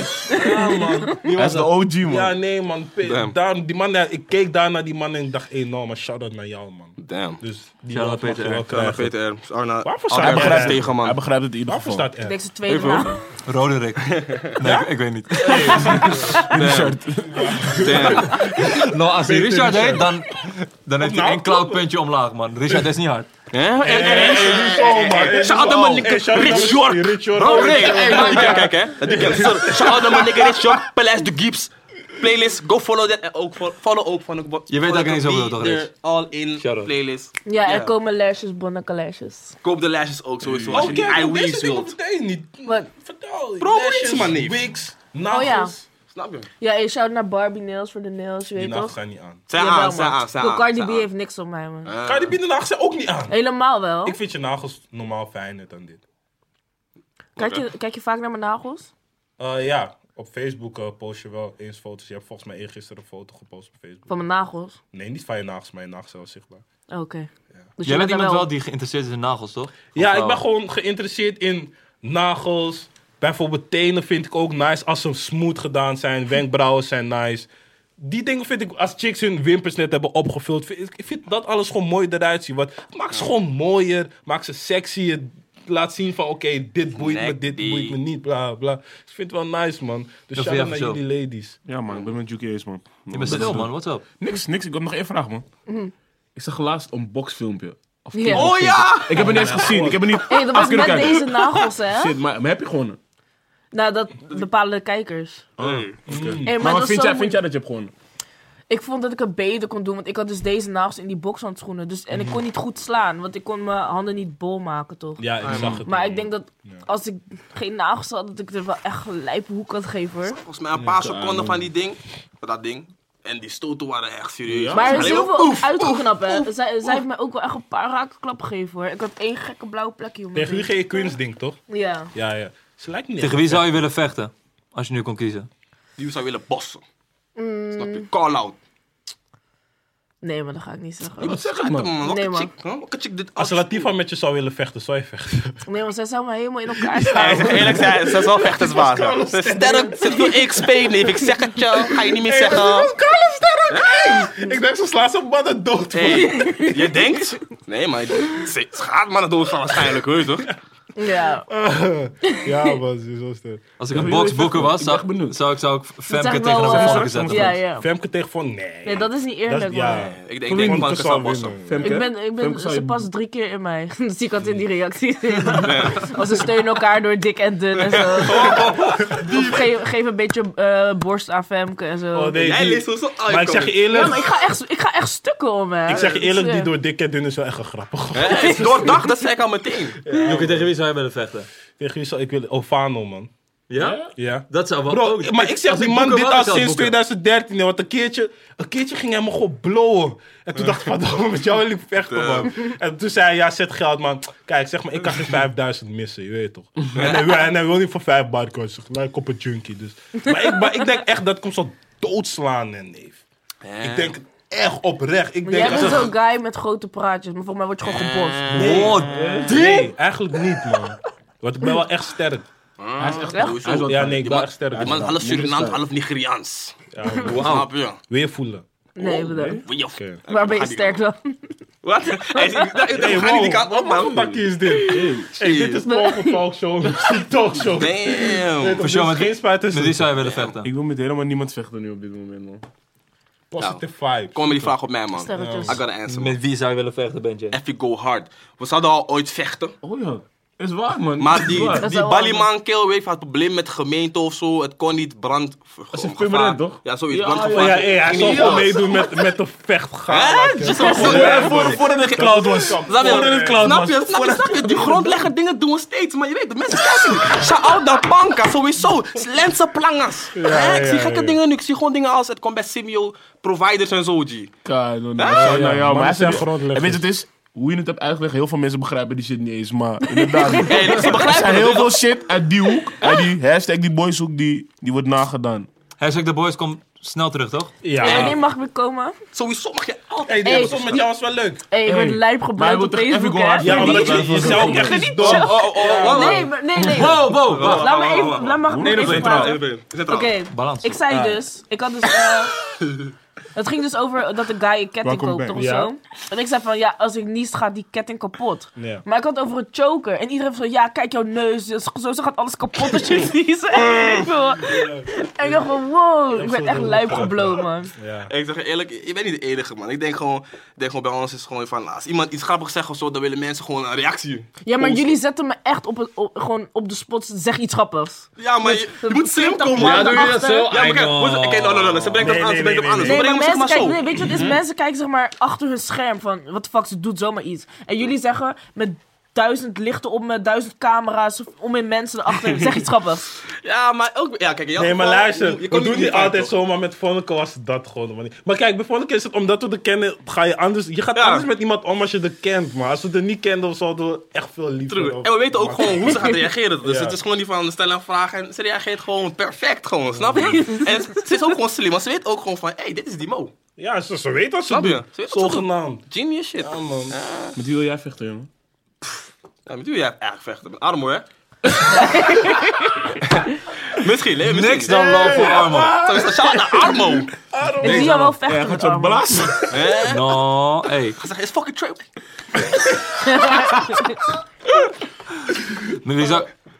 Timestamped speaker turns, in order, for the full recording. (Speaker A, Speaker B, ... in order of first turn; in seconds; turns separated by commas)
Speaker A: 0.2-9.1, Speaker B: 0.3-1.6, Speaker C: 1.3-2.3, Speaker D: 3.0-3.3, Speaker D: 7.0-7.4, Speaker E: 7.9-8.7, Speaker D: 8.7-11.2, Speaker A: 9.8-10.8, Speaker E: 10.1-10.8, Speaker C: 10.2-12.1, Speaker A: 11.7-12.3, Speaker B: 12.2-13.2, Speaker D: 12.7-13.2, Speaker E: 13.4-16.1, Speaker D: 14.1-14.5, Speaker A: 14.6-16.4, Speaker D: 15.5-17.0, Speaker C: 15.8-17.8, Speaker A: 17.3-20.1, Speaker D: 17.7-18.5, Speaker E: 18.7-23.3, Speaker A: 21.0-21.8, Speaker D: 23.5-37.9, Speaker A: 23.8-30.5, Speaker E: 27.4-28.9, Speaker E: 34.7-35.9, Speaker E: 36.6-36.9, Speaker B: 37.5-39.5, Speaker D: 39.6-41.9, Speaker C: 40.5-41.2, Speaker A: 40.7-45.9, Speaker D: 43.6-44.6, Speaker B: 45.3-45.7, Speaker D: 46.1-46.5, Speaker B: 46.6-48.9, Speaker A: 48.5-49.4, Speaker D: 49.5-51.1, Speaker B: 49.5-51.9, Speaker D: 51.9-52.4, Speaker A: 52.0-53.4, Speaker B: 53.3-54.2, Speaker A: 54.0-56.0, Speaker D: 57.4-57.6, Speaker B: 57.4-58.9, Speaker A: 59.4-64.2, Speaker B: 64.1-64.8, Speaker A: 64.9-66.6, Speaker B: 66.9-68.5, Speaker E: 67.8-70.4, Speaker A: 69.9-91.6, Speaker D: 87.0-88.0, Speaker E: 90.3-91.0, Speaker C: 91.7-95.4, Speaker E: 93.1-94.0, Speaker A: 93.2-93.5, Speaker B: 95.7-95.9, Speaker C: 96.3-103.0, Speaker B: 98.1-98.7, Speaker D: 98.3-99.7, Speaker A: 99.1-100.2, Speaker B: 100.2-102.2, Speaker B: 103.7-105.5, Speaker C: 105.6-107.9, Speaker D: 105.6-106.0, Speaker A: 106.1-106.6, Speaker B: 106.4-107.4, Speaker B: 108.7-120.4, Speaker A: 112.1-112.4, Speaker A: 115.2-116.8, Speaker D: 115.4-115.8, Speaker D: 120.2-127.0, Speaker C: 121.0-121.7, Speaker C: 124.5-125.2, Speaker B: 124.7-131.1, Speaker A: 130.3-131.6, Speaker B: 131.7-132.1, Speaker A: 132.1-133.8, Speaker E: 133.2-135.5, Speaker D: 136.0-136.8, Speaker B: 137.3-138.1, Speaker D: 137.8-138.6, Speaker B: 140.2-141.4, Speaker D: 141.2-143.9, Speaker B: 142.0-142.5, Speaker A: 143.4-145.6, Speaker B: 145.7-147.8, Speaker A: 146.8-151.1, Speaker D: 147.1-152.9, Speaker A: 151.7-156.5, Speaker D: 153.7-154.1, Speaker D: 155.9-160.6, Speaker B: 156.0-157.2, Speaker B: 160.9-161.4, Speaker A: 161.5-163.6, Speaker B: 162.3-162.8, Speaker E: 163.8-167.6, Speaker C: 163.9-165.4, Speaker B: 166.1-167.9, Speaker A: 166.6-172.1, Speaker C: 167.0-167.4, Speaker B: 168.8-170.2, Speaker D: 169.9-171.6, Speaker C: 170.5-170.8, Speaker C: 171.7-173.1, Speaker B: 171.8-182.4, Speaker D: 175.5-176.2, Speaker D: 177.7-179.7, Speaker A: 178.4-179.2, Speaker A: 182.1-184.3, Speaker D: 182.3-184.2, Speaker B: 183.9-186.7, Speaker D: 185.8-186.2, Speaker A: 185.9-189.0, Speaker D: 188.1-190.0, Speaker B: 188.3-188.9, Speaker A: 190.0-190.7, Speaker B: 190.1-190.3, Speaker E: 190.2-191.5, Speaker A: 191.8-193.3, Speaker E: 193.7-196.9, Speaker C: 193.7-194.1, Speaker A: 194.2-213.2, Speaker D: 202.1-202.5, Speaker D: 206.9-207.4, Speaker D: 213.6-214.2, Speaker A: 213.8-216.1, Speaker B: 215.4-218.8, Speaker D: 215.6-216.1, Speaker D: 217.8-219.4, Speaker A: 218.5-222.4, Speaker E: 218.6-219.1, Speaker C: 219.0-219.7, Speaker B: 219.4-219.9, Speaker B: 220.5-220.8, Speaker D: 222.8-228.0, Speaker C: 223.0-225.8, Speaker A: 223.8-225.1, Speaker A: 226.9-228.7, Speaker E: 227.2-227.7, Speaker B: 229.0-229.7, Speaker C: 229.0-229.7, Speaker D: 229.6-231.0, Speaker A: 229.9-230.2, Speaker B: 230.3-231.5, Speaker D: 231.8-234.8, Speaker B: 232.3-232.8, Speaker A: 232.9-240.1, Speaker C: 234.9-235.3, Speaker D: 235.3-235.8, Speaker B: 235.9-236.4, Speaker D: 237.7-238.8, Speaker E: 238.8-240.7, Speaker D: 240.2-240.6, Speaker C: 240.6-242.6, Speaker A: 243.5-244.7, Speaker D: 243.6-246.4, Speaker B: 245.2-245.8, Speaker A: 245.3-245.8, Speaker E: 246.1-247.6, Speaker D: 247.5-249.7, Speaker C: 249.8-251.9, Speaker D: 251.2-259.1, Speaker B: 251.8-252.5, Speaker C: 255.9-258.8, Speaker A: 257.4-263.9, Speaker D: 260.1-274.5, Speaker B: 260.7-261.6, Speaker C: 260.8-265.2, Speaker A: 270.3-271.4, Speaker C: 274.6-285.7, Speaker D: 275.2-275.6, Speaker A: 275.3-277.0, Speaker B: 280.1-281.3, Speaker D: 280.6-282.0, Speaker E: 286.0-287.8, Speaker A: 287.8-288.4, Speaker B: 288.0-289.1, Speaker D: 288.0-288.4, Speaker D: 289.3-291.0, Speaker A: 290.2-291.6, Speaker B: 290.4-291.1, Speaker B: 291.7-302.5, Speaker C: 291.8-295.6, Speaker A: 293.6-296.4, Speaker D: 295.0-296.5, Speaker E: 296.4-298.1, Speaker D: 297.3-300.3, Speaker C: 298.1-299.6, Speaker E: 300.5-301.0, Speaker A: 301.1-301.4, Speaker D: 302.7-303.1, Speaker B: 303.5-317.9, Speaker C: 305.0-305.6, Speaker A: 305.5-305.9, Speaker A: 308.8-309.0, Speaker A: 314.6-315.7, Speaker A: 316.3-318.3, Speaker D: 318.3-325.1, Speaker B: 324.6-330.7, Speaker D: 328.4-334.6, Speaker E: 329.7-332.4, Speaker A: 332.2-333.2, Speaker B: 333.0-343.3, Speaker D: 343.6-346.5, Speaker A: 344.8-356.3, Speaker D: 351.1-351.4, Speaker D: 354.9-363.5, Speaker A: 356.8-357.2, Speaker A: 360.1-360.6, Speaker B: 360.4-361.2, Speaker A: 363.8-366.0, Speaker D: 364.7-367.5, Speaker A: 366.6-367.1, Speaker C: 367.5-368.5, Speaker D: 369.0-371.2, Speaker B: 371.9-373.1, Speaker D: 373.2-375.4, Speaker E: 374.4-375.9, Speaker C: 374.9-379.9, Speaker D: 376.0-377.3, Speaker A: 377.5-378.1, Speaker B: 377.8-379.5, Speaker E: 377.8-378.4, Speaker D: 379.7-380.4, Speaker E: 380.0-381.2, Speaker D: 381.1-382.0, Speaker B: 383.3-384.1, Speaker E: 386.0-386.5